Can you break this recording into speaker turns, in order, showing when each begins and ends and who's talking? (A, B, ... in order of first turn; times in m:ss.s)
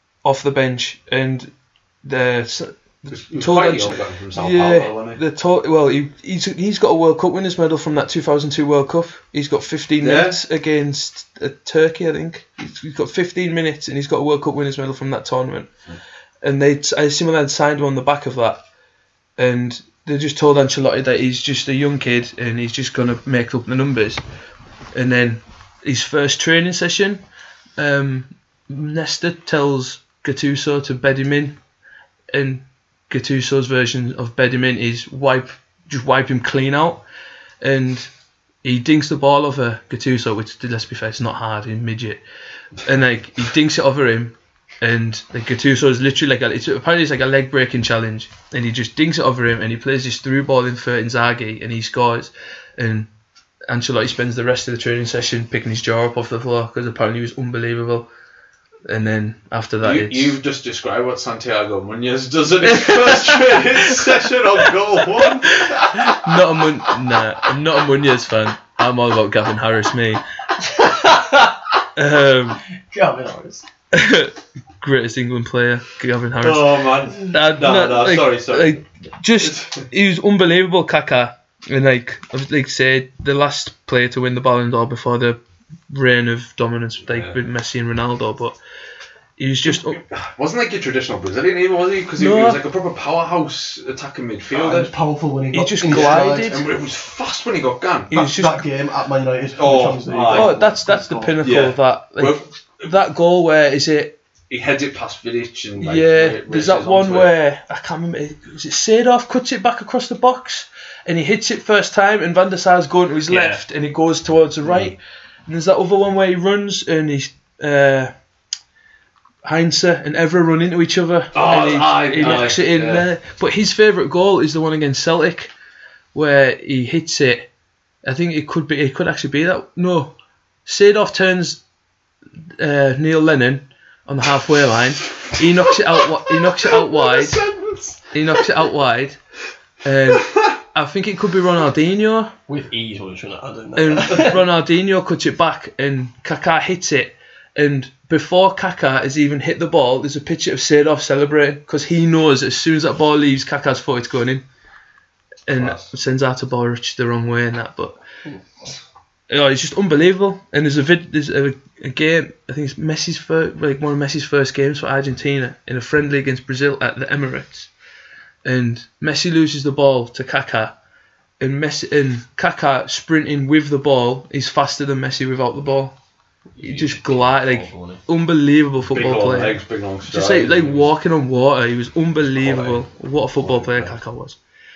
0:00.2-0:15.7 A
0:03.1-0:05.2 B
0:10.0-0:10.4 B
0:16.4-0:18.6 A
0:19.4-0:24.2 A
0:24.9-0:27.2 A
0:27.8-0:31.6 A
0:32.3-0:37.0 A
0:37.6-0:38.1 A
0:38.6-0:42.2 A
0:42.8-0:53.1 A
0:53.7-0:58.1 A
0:58.9-1:00.4 A
0:59.8-1:06.1 B
1:02.7-1:03.7 A
1:05.5-1:10.2 A
1:10.6-1:11.7 C
1:12.0-1:12.6 A
1:12.8-1:13.7 C
1:13.9-1:28.6 A
1:16.4-1:18.8 B
1:19.4-1:19.9 B
1:27.1-1:27.4 B
1:29.4-1:30.0 A
1:29.7-1:34.9 B
1:32.2-1:32.6 A
1:34.5-1:36.6 C
1:35.5-1:36.7 A
1:35.9-1:38.1 B
1:38.1-1:38.6 A
1:38.1-1:41.4 C
1:39.6-1:40.6 B
1:40.3-1:44.2 A
1:41.4-1:42.5 B
1:44.5-1:47.3 B
1:45.8-1:58.1 A
1:53.3-1:53.6 C
1:54.6-1:54.9 B
1:59.4-2:05.5 A
2:01.3-2:03.1 B
2:02.2-2:02.6 C
2:06.1-2:07.5 A
2:08.0-2:10.2 A
2:10.7-2:11.6 A
2:12.6-2:17.4 A
2:15.2-2:18.5 B
2:18.1-2:19.2 A
2:19.8-2:22.3 A
2:20.2-2:20.5 B
2:22.5-2:24.4 C
2:23.8-2:34.4 A
2:35.5-2:38.0 A
2:35.6-2:35.9 B
2:38.3-2:38.6 C
2:39.3-2:47.7 A
2:48.4-2:50.7 A
2:51.4-2:56.0 A
2:56.6-2:58.0 C
2:56.6-3:04.4 A
2:58.9-3:00.9 B
3:02.4-3:02.9 B
3:03.4-3:04.0 B